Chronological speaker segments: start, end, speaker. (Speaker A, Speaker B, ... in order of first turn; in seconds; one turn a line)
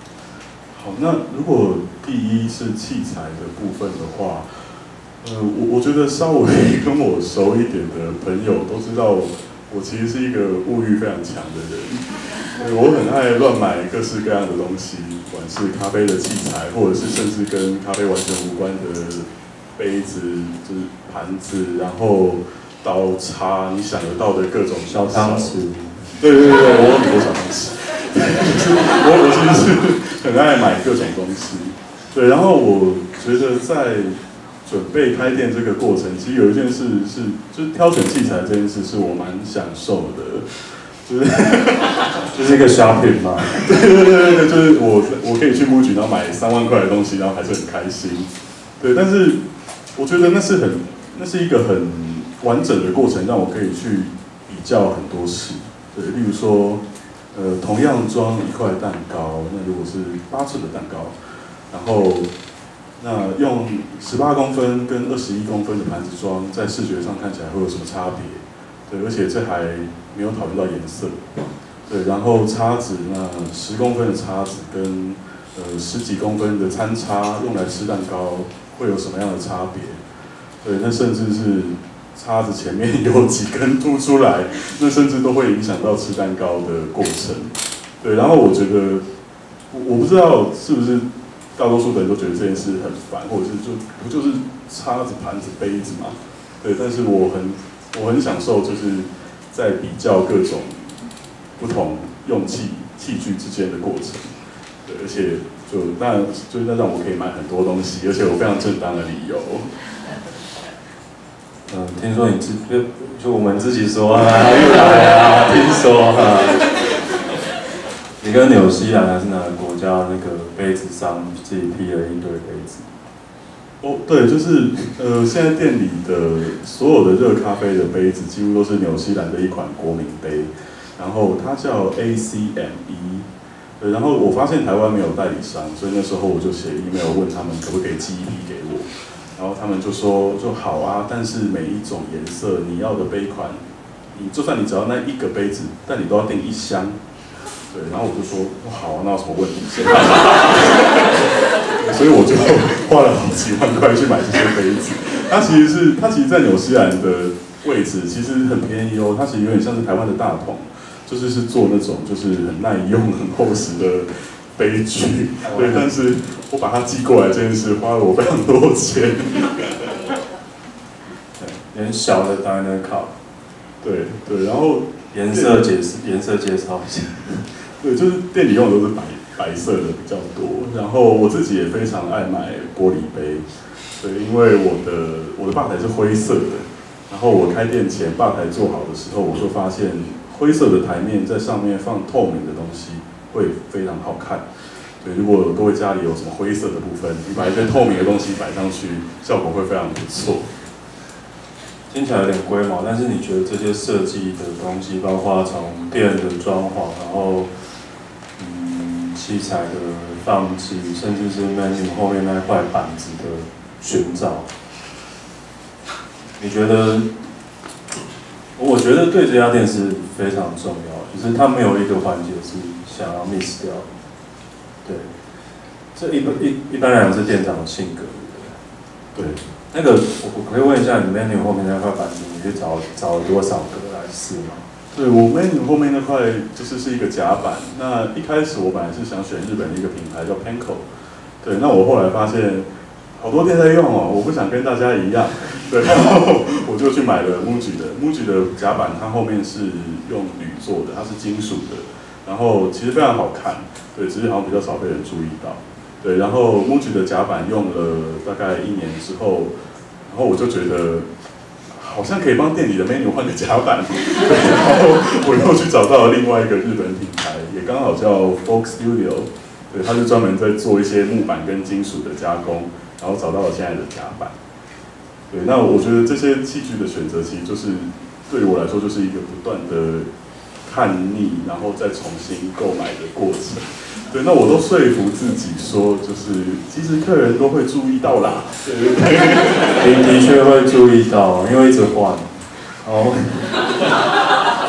Speaker A: 0.7-25.6
Speaker B: 24.9-26.2
Speaker A: 26.2-42.2
Speaker B: 42.3-43.6
Speaker A: 43.5-49.4
Speaker A: 50.0-56.8
Speaker A: 57.3-61.2
Speaker A: 61.7-62.3
Speaker A: 63.0-71.3
Speaker A: 71.9-80.0
Speaker A: 80.6-89.0
Speaker A: 89.7-91.0
Speaker A: 91.6-101.0
Speaker A: 101.6-109.7
Speaker B: 111.7-116.7
Speaker B: 118.2-122.9
Speaker A: 123.8-133.2
Speaker A: 133.8-143.6
Speaker A: 144.1-147.0
Speaker A: 147.7-151.2
Speaker A: 151.8-169.9
Speaker B: 165.4-165.9
Speaker B: 171.6-173.1
Speaker A: 173.8-175.6
Speaker B: 175.1-177.5
Speaker A: 177.6-194.4
Speaker A: 195.0-200.5
Speaker B: 201.9-207.5
Speaker B: 208.4-214.5
Speaker B: 216.4-217.1
Speaker B: 218.6-223.9
Speaker B: 224.8-225.1
Speaker B: 225.9-228.6
Speaker A: 229.2-229.5
Speaker B: 229.7-234.7
Speaker A: 234.9-240.9
Speaker A: 241.4-259.5
Speaker A: 260.1-261.1
Speaker A: 261.7-274.4
Speaker A: 275.3-280.1
Speaker A: 280.6-290.0
Speaker B: 289.6-293.7